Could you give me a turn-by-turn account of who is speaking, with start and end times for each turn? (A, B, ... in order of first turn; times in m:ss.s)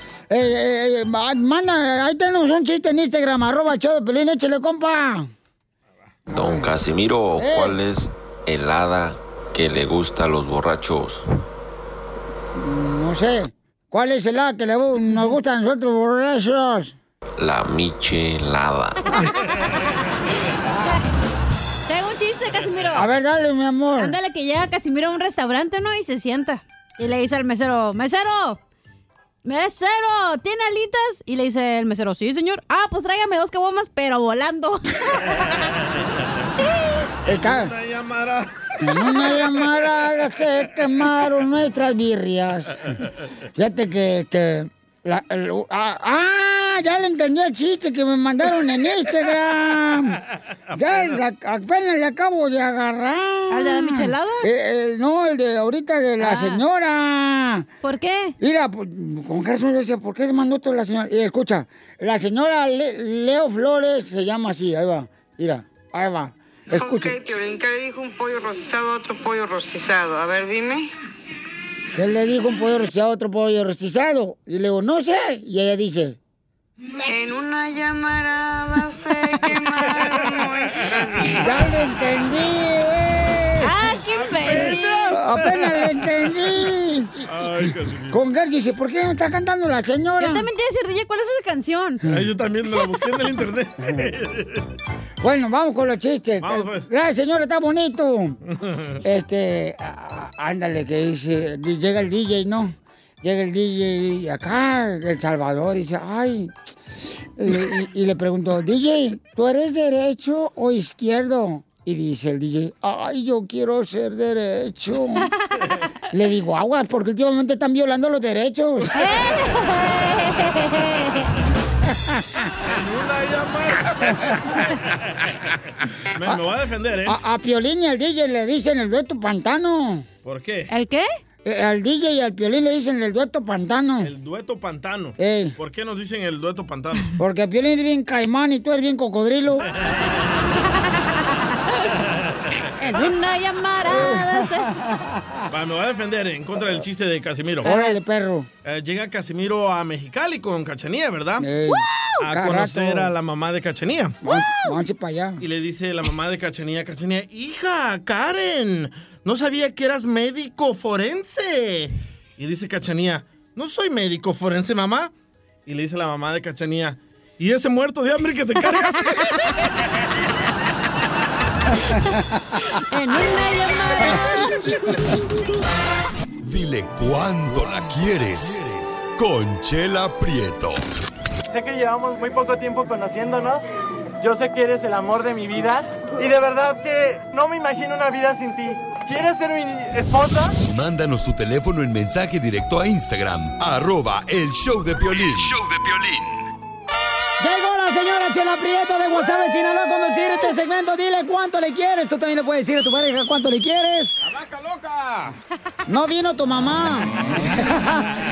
0:00.3-0:05.3 A
0:06.3-0:06.8 A
0:06.4-0:11.1 B
0:07.4-0:07.8 A
0:12.6-0:17.0 A
0:17.4-0:18.9 B
0:21.9-0:23.1 C
0:22.9-0:24.1 A
0:24.0-0:28.6 C
0:29.4-0:34.9 C
0:37.2-0:37.7 A
0:37.2-0:38.5 D
0:38.8-0:42.8 A
0:43.6-0:50.2 A
0:50.7-0:57.6 A
0:53.5-0:54.5 C
0:56.2-0:56.6 C
0:57.8-0:58.3 C
0:58.4-1:07.1 A
1:06.7-1:10.9 E
1:11.9-1:16.2 A
1:17.0-1:21.4 E
1:21.3-1:23.8 A
1:23.6-1:25.1 C
1:24.0-1:25.9 D
1:25.1-1:30.5 A
1:27.2-1:28.2 D
1:30.2-1:32.0 C
1:32.0-1:34.6 D
1:35.2-1:38.4 A
1:36.4-1:36.9 D
1:39.0-1:46.5 A
1:47.4-1:55.3 A
1:56.1-1:58.9 A
1:58.9-2:01.3 C
2:02.7-2:04.8 D
2:06.1-2:07.1 D
2:07.0-2:10.1 A
2:10.2-2:10.7 D
2:10.7-2:11.0 C
2:11.4-2:14.1 A
2:14.0-2:17.1 D
2:15.2-2:15.5 A
2:17.2-2:19.6 A
2:22.8-2:24.7 C
2:23.9-2:25.2 A
2:25.5-2:27.7 D
2:27.6-2:28.5 A
2:27.6-2:27.9 C
2:28.6-2:31.5 D
2:31.4-2:33.1 A
2:32.2-2:34.2 D
2:34.2-2:35.4 A
2:35.4-2:45.1 D
2:45.6-2:49.3 D
2:52.7-2:54.6 C
2:54.3-2:55.0 A
2:56.4-3:00.8 F
3:01.5-3:03.6 G
3:04.2-3:10.6 G
3:10.6-3:16.4 F
3:17.4-3:24.2 A
3:24.2-3:25.4 D
3:25.9-3:28.1 A